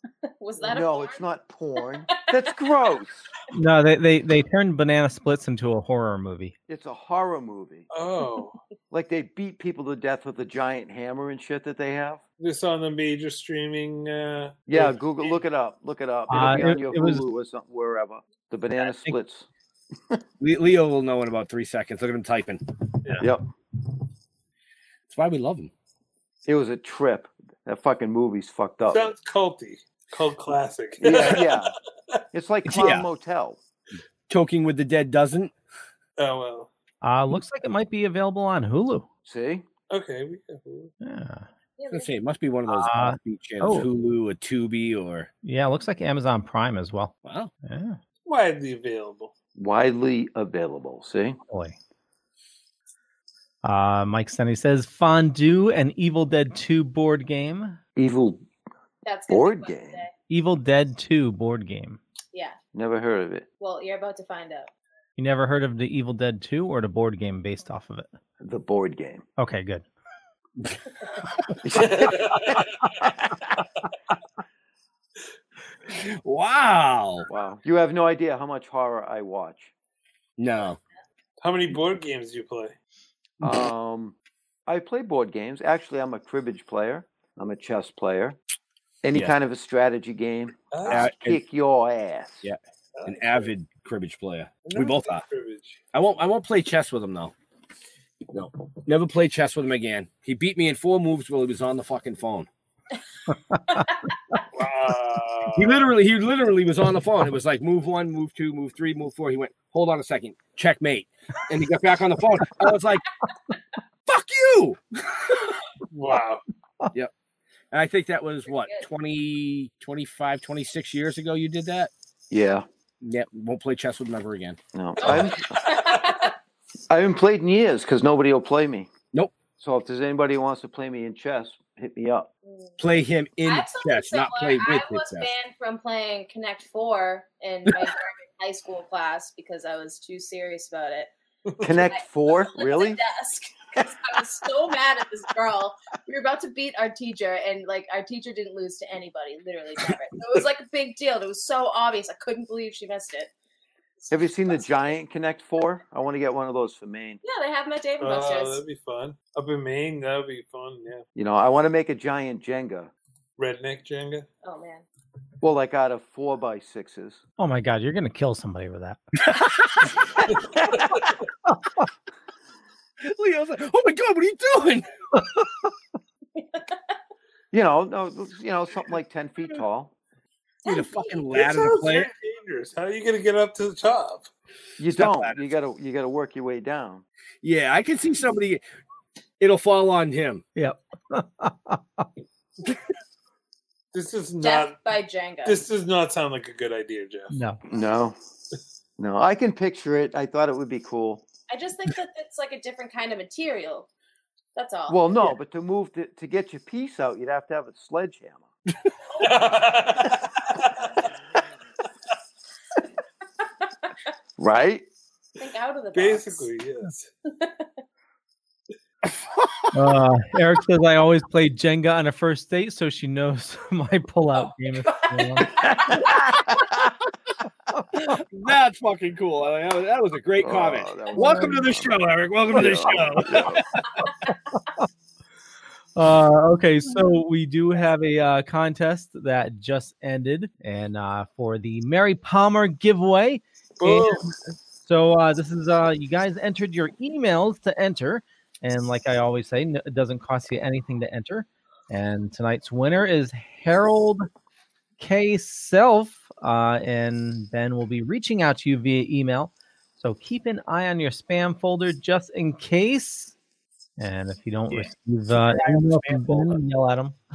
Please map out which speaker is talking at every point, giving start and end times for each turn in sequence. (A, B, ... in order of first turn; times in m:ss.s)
0:00.2-0:01.2 A
0:00.6-0:03.3 B
0:01.8-0:02.7 A
0:03.5-0:06.6 C
0:06.7-0:07.9 B
0:07.9-0:08.6 D
0:08.9-0:12.2 B
0:12.4-0:15.4 D
0:14.7-0:19.5 B
0:16.3-0:17.2 C
0:18.8-0:19.2 E
0:20.4-0:22.6 E
0:25.1-0:25.7 E
0:26.5-0:29.1 B
0:28.9-0:31.7 D
0:31.0-0:31.7 B
0:32.3-0:33.6 B
0:32.7-0:33.1 E
0:34.3-0:35.5 E
0:36.2-0:36.7 D
0:37.0-0:39.1 C
0:39.2-0:39.6 B
0:39.9-0:40.9 D
0:41.0-0:41.5 C
0:41.8-0:42.1 A
0:41.9-0:45.3 E
0:42.7-0:43.9 C
0:45.4-0:47.1 C
0:47.2-0:47.5 E
0:47.6-0:48.0 C
0:48.2-0:49.3 D
0:49.6-0:51.4 B
0:51.5-0:51.8 C
0:53.6-0:57.8 C
0:58.0-0:58.4 B
0:59.0-1:00.1 A
0:59.3-1:00.0 B
1:00.3-1:02.0 C
1:02.7-1:03.5 B
1:03.6-1:04.7 A
1:05.2-1:08.1 C
1:08.4-1:09.2 B
1:09.4-1:09.8 C
1:11.6-1:12.6 B
1:11.7-1:13.0 D
1:15.9-1:17.3 E
1:17.3-1:19.7 B
1:20.4-1:20.8 E
1:21.4-1:22.7 D
1:23.4-1:23.7 E
1:23.4-1:24.2 B
1:24.7-1:28.4 B
1:29.0-1:32.5 B
1:30.7-1:31.1 D
1:30.9-1:31.4 E
1:32.4-1:35.2 E
1:33.0-1:33.5 D
1:34.6-1:35.8 D
1:35.9-1:37.3 E
1:38.3-1:42.5 E
1:43.5-1:43.8 C
1:44.5-1:45.9 D
1:45.5-1:53.1 E
1:54.1-1:55.4 E
1:55.9-1:56.4 D
1:57.7-2:01.9 E
1:58.6-1:58.8 A
2:02.3-2:02.7 B
2:03.0-2:05.2 E
2:04.7-2:05.5 B
2:05.0-2:06.4 A
2:05.1-2:06.3 D
2:06.9-2:08.9 B
2:09.6-2:12.3 B
2:12.4-2:12.8 A
2:12.8-2:15.3 E
2:13.4-2:21.1 A
2:17.7-2:17.9 E
2:21.6-2:23.0 B
2:21.8-2:33.3 A
2:34.0-2:34.9 A
2:34.1-2:37.2 B
2:37.2-2:38.6 A
2:38.0-2:41.0 D
2:41.2-2:42.9 B
2:43.4-2:44.3 D
2:44.4-2:44.8 A
2:45.4-2:47.2 B
2:47.4-2:49.0 C
2:49.3-2:50.0 E
2:50.5-2:51.1 D
2:53.0-2:54.9 E
2:55.2-2:55.7 C
2:56.4-2:56.8 A
2:57.5-3:00.0 B
3:00.6-3:01.2 A
3:00.7-3:02.1 E
3:01.3-3:04.3 D
3:04.8-3:07.0 B
3:04.9-3:05.5 E
3:07.4-3:08.6 E
3:09.4-3:10.4 E
3:10.6-3:12.1 C
3:13.9-3:14.8 D
3:14.4-3:15.6 A
3:15.4-3:17.3 D
3:17.3-3:17.6 C
3:17.7-3:18.2 B
3:19.0-3:21.2 B
3:21.5-3:23.9 A
3:24.6-3:25.2 A
3:24.9-3:28.5 B
3:29.2-3:29.5 A
3:29.2-3:30.9 D
3:34.4-3:34.9 B
3:35.4-3:36.5 A
3:35.9-3:37.1 D
3:37.3-3:37.7 A
3:39.1-3:39.6 E
3:39.7-3:45.5 C
3:45.9-3:46.2 B
3:47.9-3:53.9 E
3:50.4-3:53.6 B
3:51.2-3:51.5 C
3:56.0-4:14.3 C
4:03.8-4:04.3 D
4:15.0-4:23.3 C
4:24.0-4:27.2 C
4:24.7-4:26.6 E